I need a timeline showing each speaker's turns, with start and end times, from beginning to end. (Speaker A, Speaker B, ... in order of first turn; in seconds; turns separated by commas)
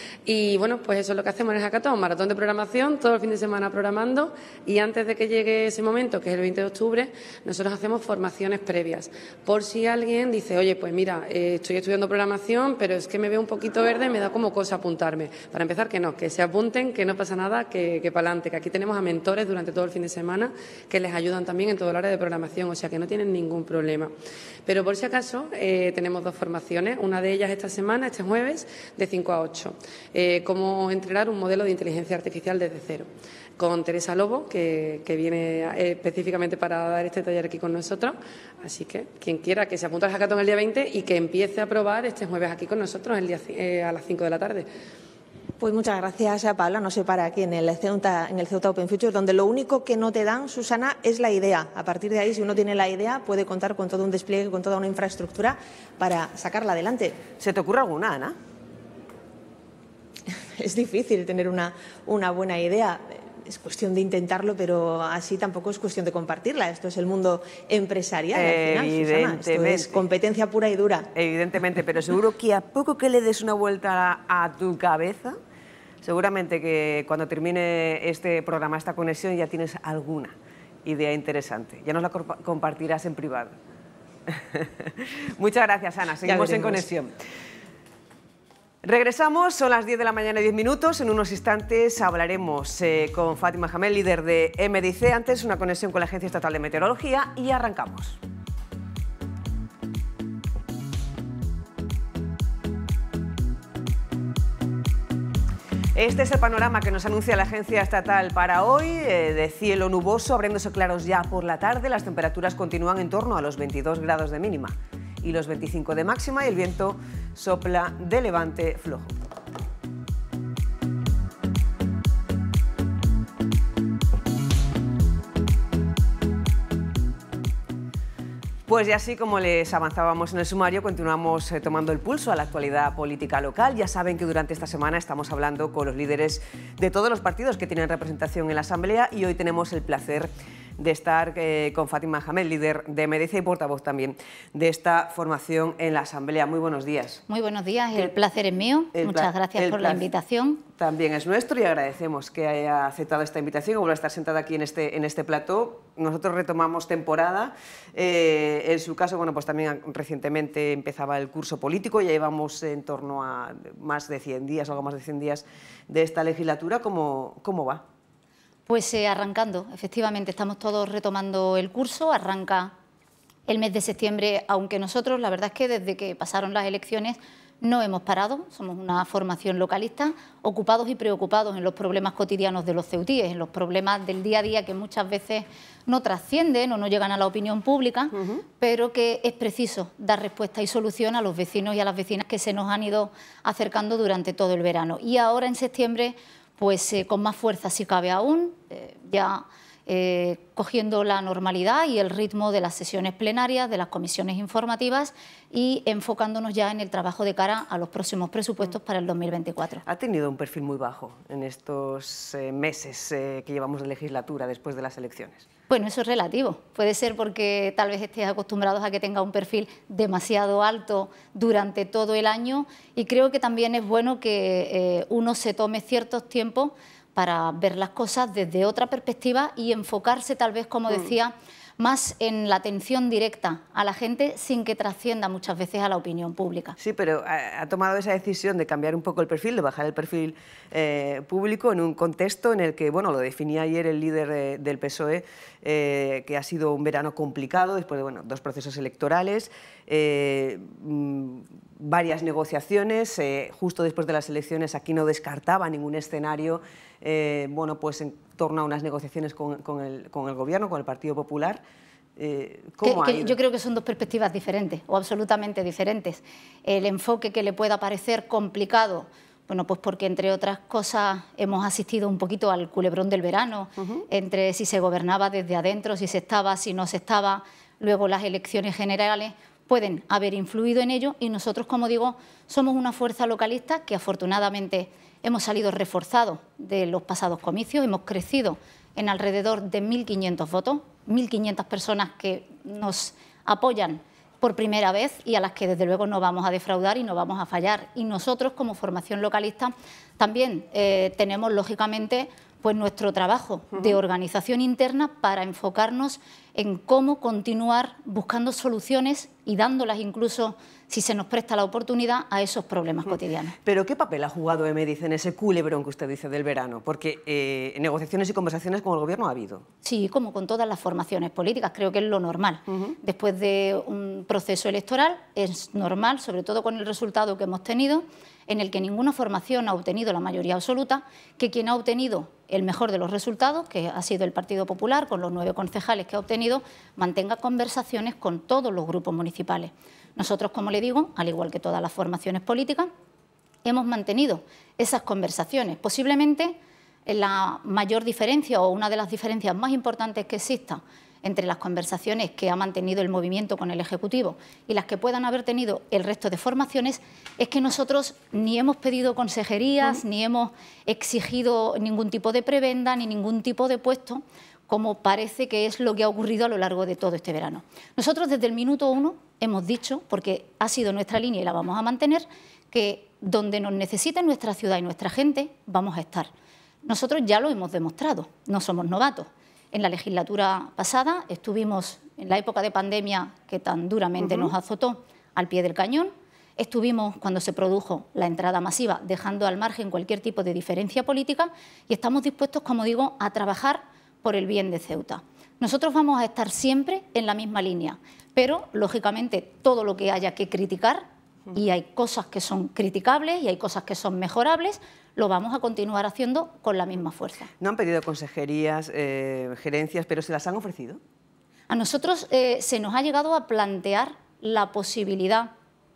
Speaker A: 0.2-24.1, Speaker A: 24.6-33.1, Speaker A: 33.6-44.7, Speaker B: 45.6-57.2, Speaker C: 57.4-58.4, Speaker B: 60.3-71.1, Speaker C: 68.3-70.0, Speaker C: 71.1-75.3, Speaker C: 76.0-83.5, Speaker C: 84.3-87.1, Speaker C: 88.8-98.2, Speaker C: 105.9-119.1, Speaker C: 128.7-147.2, Speaker D: 147.3-150.6, Speaker C: 148.9-150.1, Speaker C: 150.8-167.8, Speaker D: 168.7-172.7, Speaker D: 173.5-209.8, Speaker C: 188.1-188.4, Speaker C: 209.8-215.4, Speaker D: 215.7-236.8, Speaker C: 236.8-261.6, Speaker C: 262.2-263.4, Speaker D: 262.8-313.5, Speaker C: 273.8-274.0, Speaker C: 313.6-319.6, Speaker D: 319.8-342.9, Speaker C: 322.7-322.9, Speaker D: 343.6-376.3, Speaker D: 376.8-407.5, Speaker C: 407.6-411.0, Speaker D: 411.7-415.5